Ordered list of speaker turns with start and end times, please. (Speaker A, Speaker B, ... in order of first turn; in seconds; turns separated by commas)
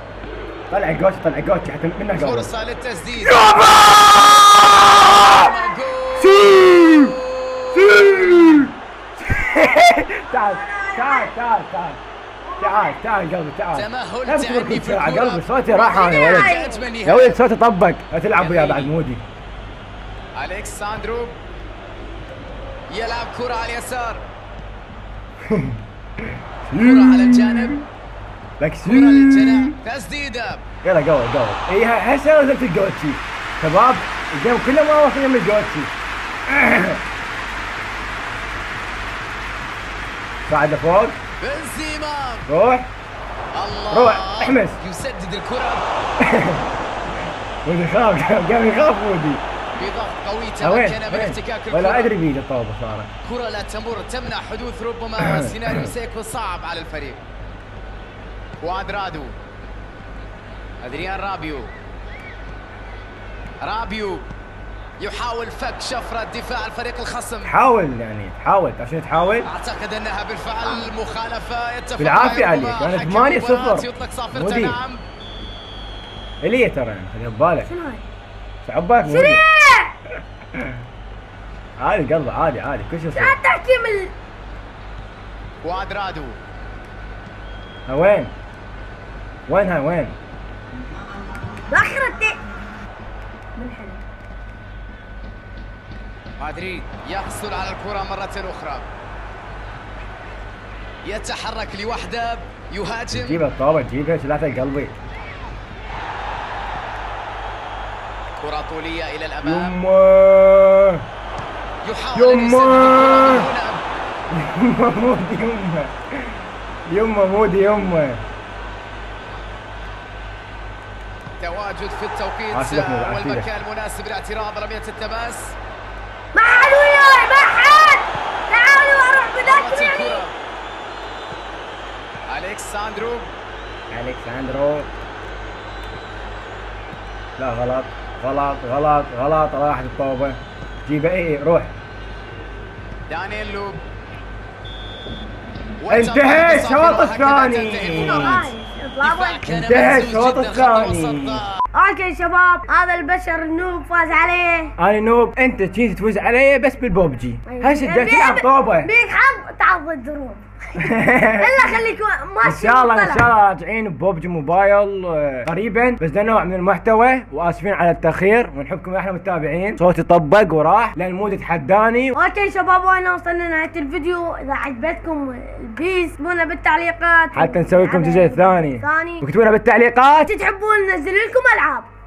Speaker A: 0.7-2.5, Speaker B: 2.1-8.7, Speaker A: 3.2-5.5, Speaker A: 6.2-7.2, Speaker A: 7.7-12.0, Speaker C: 9.2-11.3, Speaker C: 12.4-13.0, Speaker A: 12.6-19.2, Speaker B: 13.7-17.4, Speaker C: 16.1-16.9, Speaker B: 18.4-18.9, Speaker B: 20.3-21.4, Speaker B: 22.9-24.2, Speaker A: 25.5-27.8, Speaker B: 26.7-27.9, Speaker A: 28.6-29.7, Speaker B: 28.8-30.6, Speaker A: 30.8-35.9, Speaker A: 36.5-37.0, Speaker A: 40.5-41.2, Speaker B: 41.4-42.5, Speaker A: 42.5-42.9, Speaker B: 43.5-45.9, Speaker A: 43.9-44.8, Speaker A: 46.2-46.7, Speaker A: 47.6-49.4, Speaker B: 49.8-52.1, Speaker A: 50.6-53.1, Speaker B: 53.2-57.2, Speaker A: 55.2-55.9, Speaker B: 58.6-59.4, Speaker B: 60.8-61.7, Speaker B: 63.6-64.3, Speaker B: 65.0-67.5, Speaker A: 67.4-69.5, Speaker B: 69.4-75.0, Speaker C: 70.6-70.9, Speaker A: 72.0-74.8, Speaker A: 76.4-77.7, Speaker C: 77.6-78.1, Speaker A: 78.6-79.4, Speaker C: 79.0-79.9, Speaker A: 81.8-83.4, Speaker C: 83.1-84.1, Speaker B: 85.6-86.4, Speaker A: 87.9-88.3, Speaker A: 89.5-90.2, Speaker C: 91.7-92.4, Speaker C: 93.6-94.0, Speaker B: 96.4-98.9, Speaker B: 101.0-103.4, Speaker A: 103.1-104.9, Speaker B: 108.4-109.8, Speaker A: 109.4-111.0, Speaker B: 111.8-113.8, Speaker A: 112.1-113.5, Speaker A: 114.3-118.2, Speaker B: 121.4-125.6, Speaker A: 122.5-123.5, Speaker C: 126.3-130.2, Speaker B: 129.4-130.3, Speaker B: 132.3-133.3, Speaker A: 133.9-134.9, Speaker A: 137.4-141.7, Speaker B: 143.1-143.8, Speaker B: 145.8-151.5, Speaker A: 145.9-148.5, Speaker C: 148.0-149.4, Speaker A: 149.5-151.4, Speaker C: 151.7-154.7, Speaker A: 154.8-158.9, Speaker C: 157.4-163.3, Speaker A: 160.8-161.8, Speaker A: 162.4-172.2, Speaker C: 172.1-179.3, Speaker A: 177.3-180.3, Speaker C: 180.2-181.9